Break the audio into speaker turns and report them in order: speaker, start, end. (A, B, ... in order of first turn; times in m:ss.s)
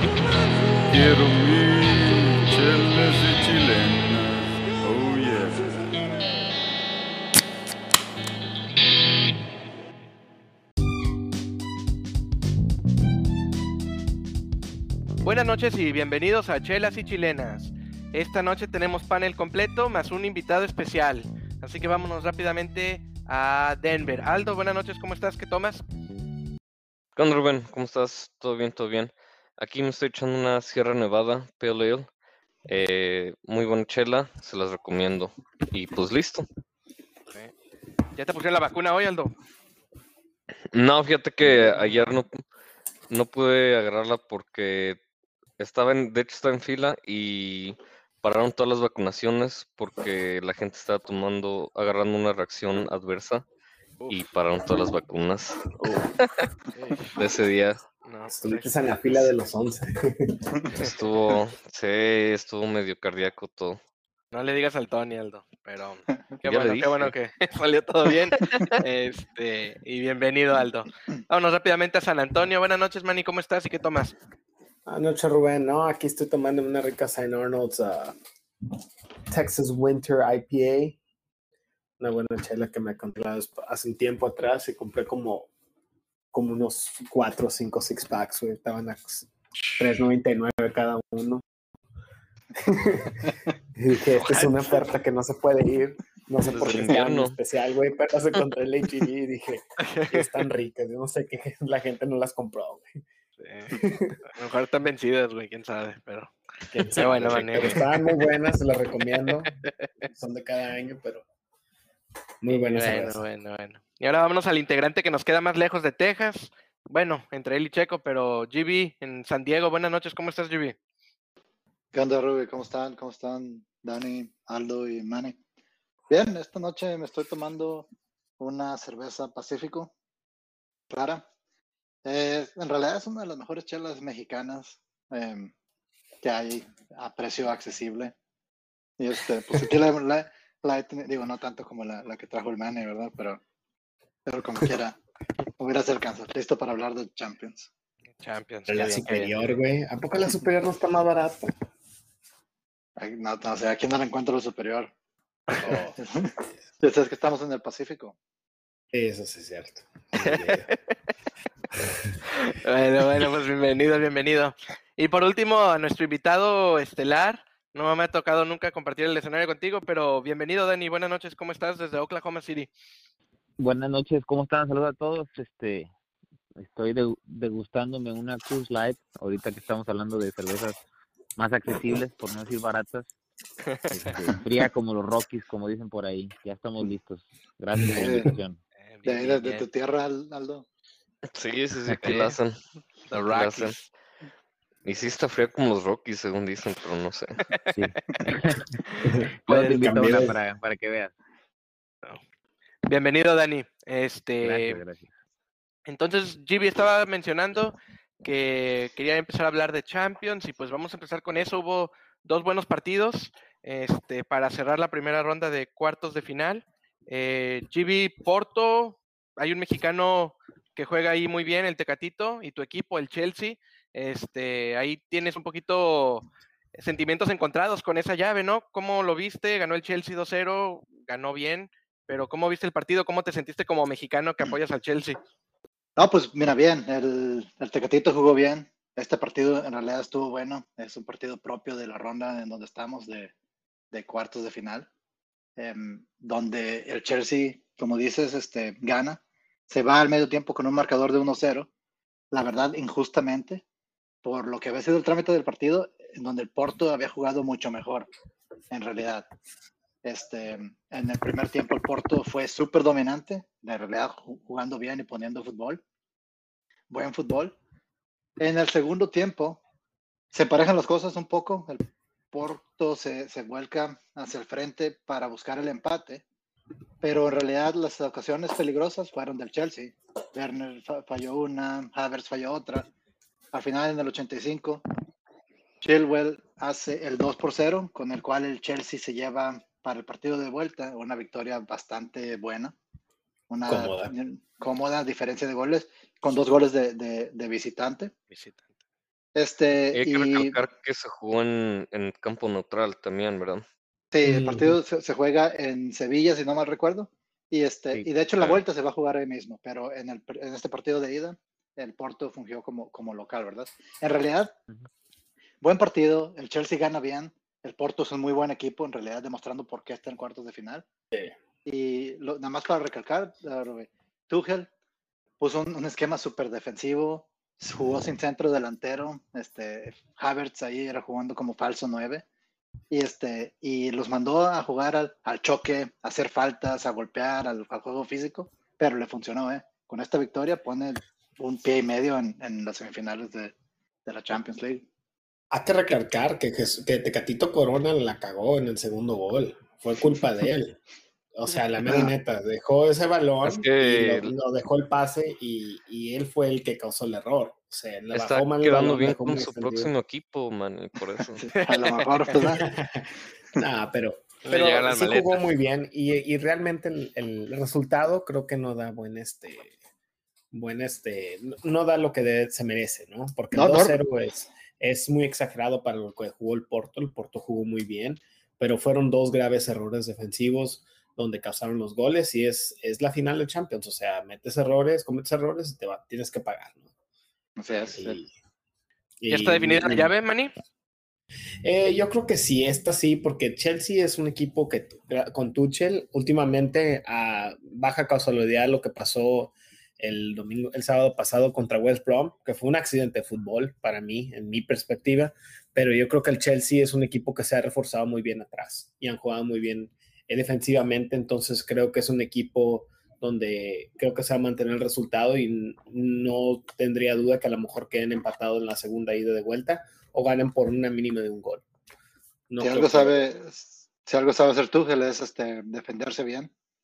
0:00.8-0:06.1 A
0:15.2-0:25.8 B
0:27.2-0:32.1 C
0:32.7-0:36.5 C
0:38.1-0:39.3 B
0:40.7-0:42.4 C
0:41.4-0:42.0 B
0:43.1-0:45.0 C
0:45.6-0:53.4 C
0:54.1-0:55.7 C
0:55.8-0:56.1 D
0:56.2-0:56.5 C
0:56.7-0:57.2 B
0:57.2-0:57.8 C
0:58.0-0:59.3 B
0:58.3-1:00.4 D
1:00.8-1:03.8 C
1:04.3-1:14.1 B
1:06.4-1:07.1 C
1:14.8-1:18.2 D
1:19.3-1:21.0 D
1:22.0-1:25.5 D
1:26.3-1:31.4 D
1:29.6-1:29.9 B
1:32.6-1:42.9 D
1:34.2-1:34.6 B
1:36.5-1:37.4 C
1:39.8-1:40.3 B
1:43.4-1:43.8 B
1:43.8-1:44.3 D
1:44.3-1:48.2 B
1:46.7-1:49.5 D
1:49.2-1:49.7 B
1:50.1-1:51.2 D
1:52.4-1:53.2 D
1:52.5-2:00.8 B
2:01.9-2:05.4 E
2:06.1-2:07.9 E
2:08.4-2:09.9 E
2:10.9-2:11.2 E
2:12.0-2:15.5 E
2:16.2-2:18.1 E
2:19.0-2:23.4 E
2:24.2-2:25.0 E
2:25.6-2:27.7 E
2:28.2-2:29.5 B
2:28.7-2:31.5 D
2:33.0-2:34.9 E
2:35.6-2:38.2 E
2:35.6-2:35.9 D
2:38.9-2:40.7 D
2:40.2-2:40.8 B
2:41.8-2:42.2 D
2:42.3-2:52.7 B
2:53.6-2:55.9 F
2:56.6-3:00.8 F
3:01.4-3:03.1 F
3:03.9-3:08.6 F
3:07.8-3:08.2 D
3:07.9-3:08.3 E
3:08.8-3:09.7 B
3:09.0-3:10.6 E
3:11.3-3:12.6 C
3:11.9-3:12.2 F
3:12.0-3:12.4 B
3:13.1-3:13.9 B
3:13.1-3:13.8 C
3:14.8-3:17.4 C
3:17.4-3:17.7 B
3:17.7-3:18.8 F
3:19.0-3:20.3 D
3:19.4-3:21.1 F
3:19.5-3:20.3 B
3:22.9-3:24.8 B
3:24.4-3:25.1 F
3:25.9-3:55.2 B
3:56.0-4:03.3 E
4:03.9-4:04.9 E
4:05.6-4:11.7 E
4:12.3-4:13.6 E
4:14.2-4:18.1 E
4:18.7-4:19.3 E
4:20.0-4:25.8 E
4:26.9-4:27.6 E
4:28.4-4:29.6 E
4:30.3-4:36.2 E
4:37.0-4:42.9 E
4:43.5-4:44.8 E
4:45.8-4:52.7 E
4:53.5-4:58.1 E
4:53.7-4:54.1 D
4:58.3-4:58.8 B
4:59.3-5:00.6 E
4:59.9-5:03.6 C
5:04.1-5:14.6 E
5:04.2-5:04.8 D
5:15.6-5:20.8 E
5:21.6-5:24.7 E
5:25.4-5:32.2 E
5:32.9-5:44.9 E
5:45.5-5:50.8 D
5:51.3-5:59.9 D
5:51.8-5:52.1 E
5:53.4-5:54.3 C
5:58.1-6:01.5 C
6:01.2-6:02.6 E
6:01.7-6:02.3 B
6:02.4-6:09.7 D
6:04.5-6:05.4 B
6:10.5-6:26.8 D
6:13.5-6:14.0 E
6:27.6-6:28.2 E
6:27.9-6:28.3 D
6:29.2-6:30.1 D
6:29.3-6:30.5 B
6:31.6-7:01.6 D
7:02.5-7:03.2 D
7:02.6-7:06.5 E